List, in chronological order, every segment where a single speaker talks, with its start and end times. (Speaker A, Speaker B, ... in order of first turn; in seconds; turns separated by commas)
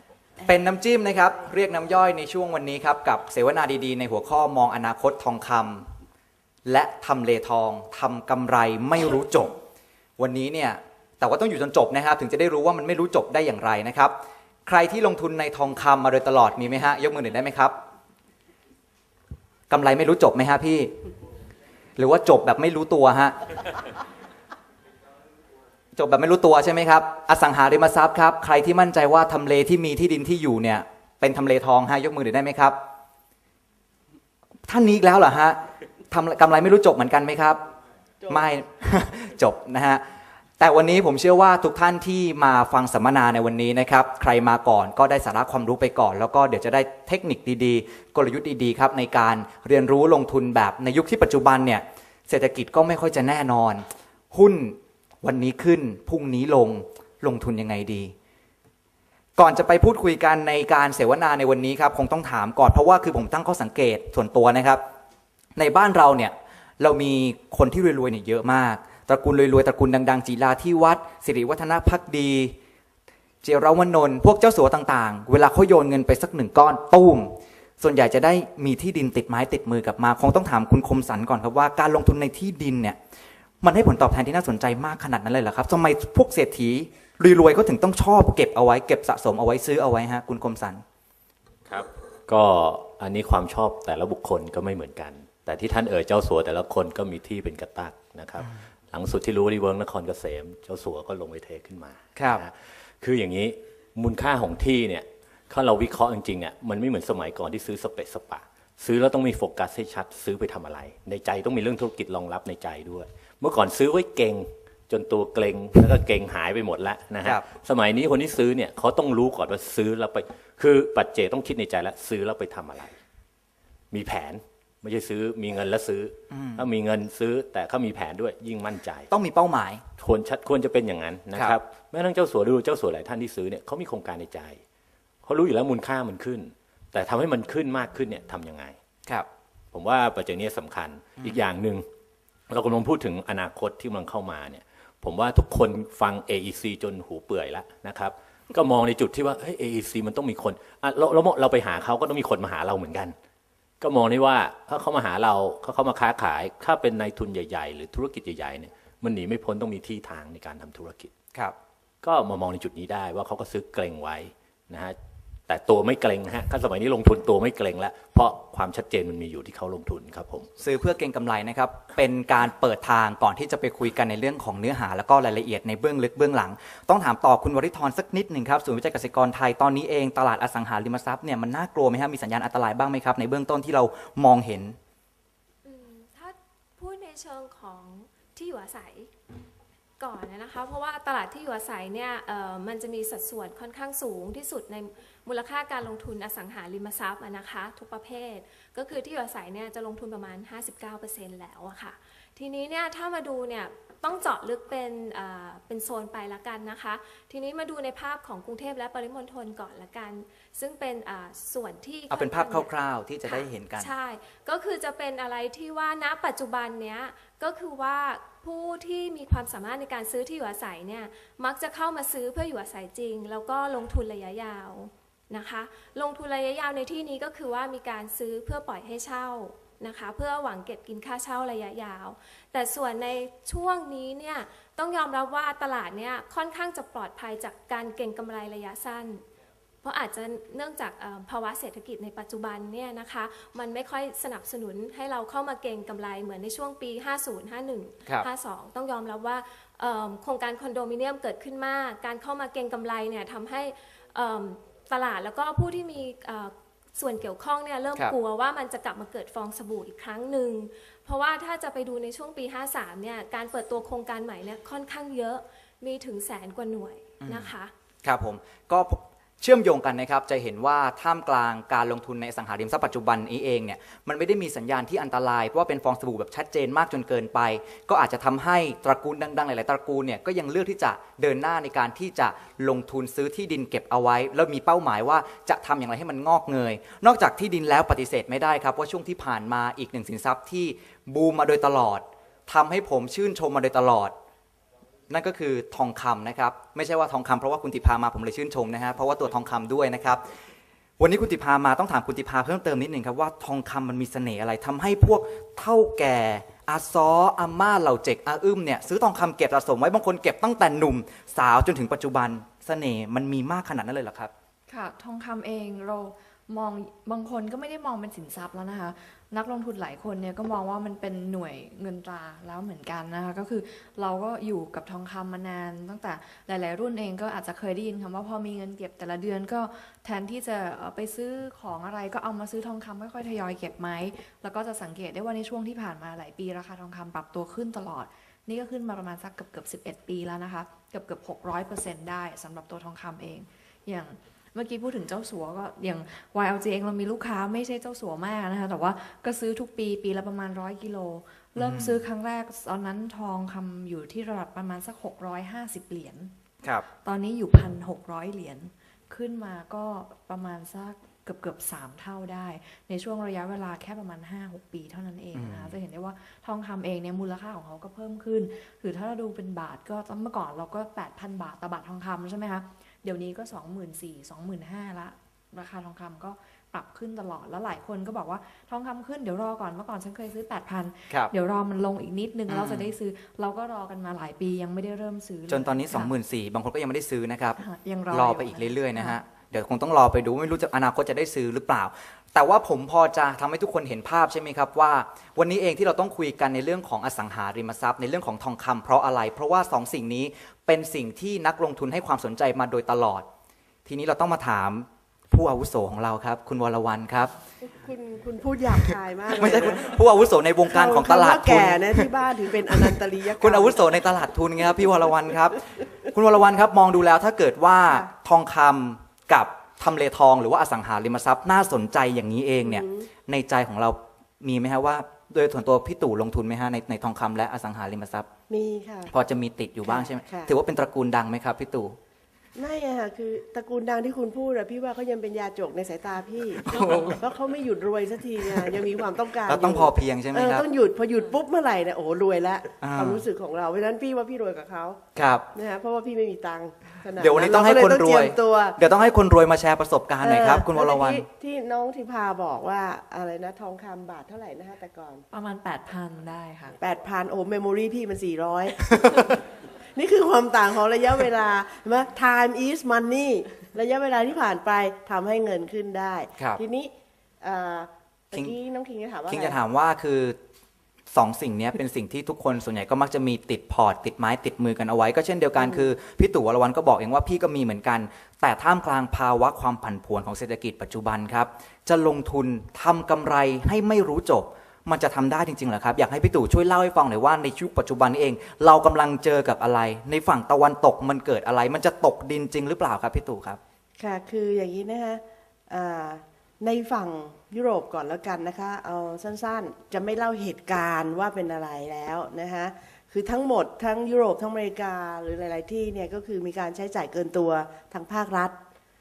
Speaker A: 0.4-5.9, Speaker A: 6.6-9.6, Speaker A: 10.2-17.8, Speaker A: 19.7-20.9, Speaker A: 22.0-23.4, Speaker A: 25.9-32.8, Speaker A: 34.7-35.6, Speaker A: 36.1-37.6, Speaker A: 38.2-40.0, Speaker A: 40.6-58.1, Speaker A: 59.4-64.8, Speaker A: 65.6-72.5, Speaker A: 73.4-83.0, Speaker A: 83.6-90.8, Speaker B: 91.7-123.0, Speaker A: 102.2-102.4, Speaker B: 123.9-129.1, Speaker A: 126.3-126.7, Speaker A: 129.1-129.8, Speaker B: 130.0-134.6, Speaker B: 135.2-138.8, Speaker B: 139.7-141.9, Speaker B: 142.5-153.2, Speaker B: 153.8-161.1, Speaker B: 162.0-165.0, Speaker B: 165.5-170.5, Speaker A: 170.6-184.8, Speaker C: 185.6-189.1, Speaker C: 190.0-212.7, Speaker A: 212.1-213.9, Speaker C: 213.3-239.2, Speaker C: 239.8-267.7, Speaker A: 267.2-267.5, Speaker A: 268.0-294.1, Speaker A: 295.1-300.2, Speaker A: 301.0-314.3, Speaker D: 314.7-356.3, Speaker A: 351.6-352.0, Speaker D: 357.0-386.1, Speaker A: 365.3-365.8, Speaker A: 382.5-382.9, Speaker A: 385.5-387.6, Speaker D: 387.6-389.2, Speaker A: 388.1-403.3, Speaker A: 403.9-407.4, Speaker E: 407.6-409.9, Speaker A: 409.3-412.1, Speaker E: 410.7-413.9, Speaker A: 412.9-428.3, Speaker E: 422.6-423.1, Speaker E: 428.5-429.1, Speaker A: 429.1-432.0, Speaker E: 429.9-430.5, Speaker E: 432.6-445.0, Speaker A: 436.7-437.2, Speaker A: 439.5-440.6, Speaker A: 442.8-443.2, Speaker A: 445.1-445.4, Speaker E: 445.5-448.8, Speaker A: 447.1-451.2, Speaker E: 450.2-455.2, Speaker D: 455.3-456.8, Speaker E: 456.8-459.4, Speaker E: 459.9-469.6, Speaker A: 469.3-470.4, Speaker A: 471.1-493.6, Speaker E: 475.6-475.9, Speaker E: 494.0-508.6